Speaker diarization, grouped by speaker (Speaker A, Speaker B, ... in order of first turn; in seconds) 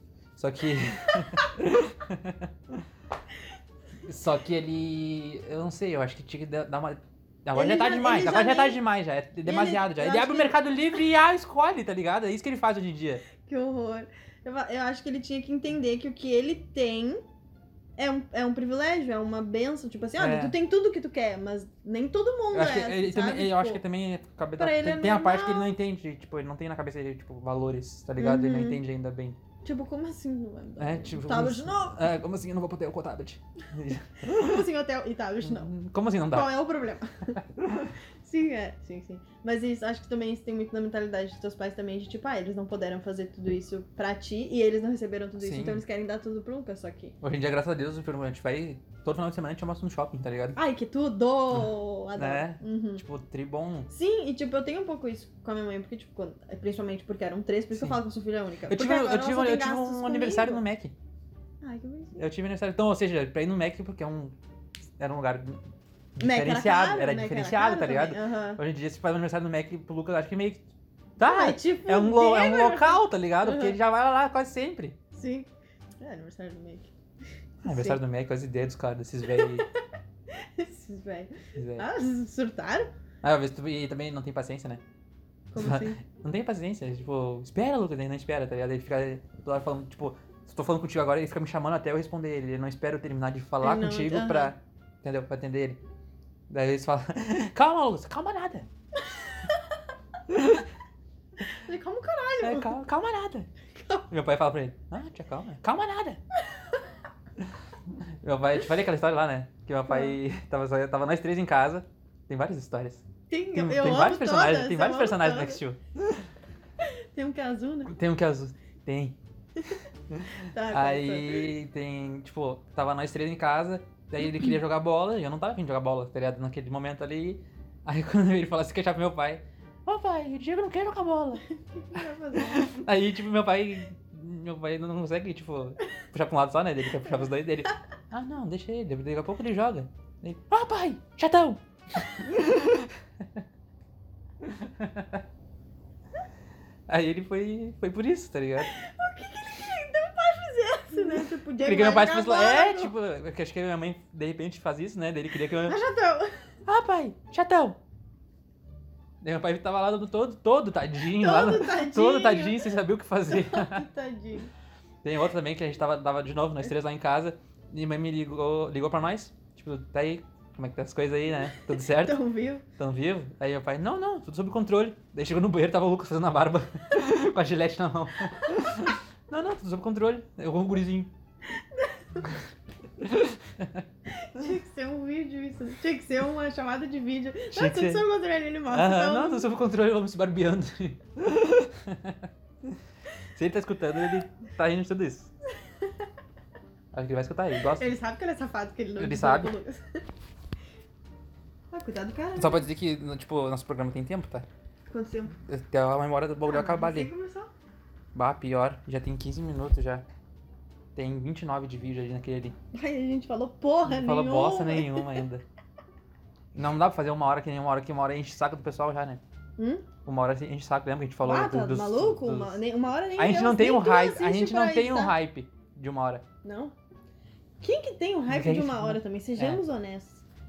Speaker A: 0.3-2.7, 4.0-13.2, 20.2-20.5, 22.5-29.4, 30.8-34.6, 35.4-36.6, 45.4-45.8, 47.2-50.6, 51.5-53.9, 57.7-58.0, 58.7-60.9, 62.1-64.3, 65.0-65.6, 66.2-70.7, 71.2-75.0, 77.6-79.7, 81.5-81.9, 83.2-84.8, 85.5-95.8, 96.5-98.7, 100.3-100.7, 102.4-103.5, 104.1-106.2, 108.1-115.8, 117.9-119.2, 120.1-131.4, 132.3-142.9, 144.4-145.2, 146.9-148.7, 151.0-155.8, 156.7-157.8, 159.2-163.8, 165.0-172.2, 172.8-181.1, 183.0-183.8, 187.5-188.0, 188.7-192.3, 193.3-195.3, 196.9-197.9, 199.0-199.5, 202.3-204.4, 205.4-207.1, 208.1-210.0, 210.9-212.5, 213.8-215.4, 216.5-219.2, 220.0-222.6, 223.2-226.2, 228.3-229.6
Speaker B: 7.5-8.8, 9.4-10.6, 13.4-17.2, 18.0-23.8, 24.6-25.7, 28.2-28.8, 29.6-32.0, 34.2-35.7, 36.3-37.4, 38.2-47.1, 50.5-53.0, 53.9-60.6, 61.6-62.2, 66.2-68.6, 71.2-73.8, 75.1-75.5, 76.0-76.9, 77.6-78.0, 79.3-79.7, 80.3-82.9, 85.5-86.0, 93.6-94.5, 101.5-102.7, 109.9-110.2, 113.3-115.6, 116.8-117.9, 120.5-121.5, 131.5-132.7, 148.6-152.9, 155.6-156.3, 161.1-162.7, 163.3-164.5, 171.6-172.6, 181.5-182.3, 184.1-189.5, 197.6-199.8, 201.7-202.7, 204.9-205.3, 206.4-207.5, 212.7-215.2, 219.6-219.9, 221.2-225.1, 226.4-226.7, 227.6-230.2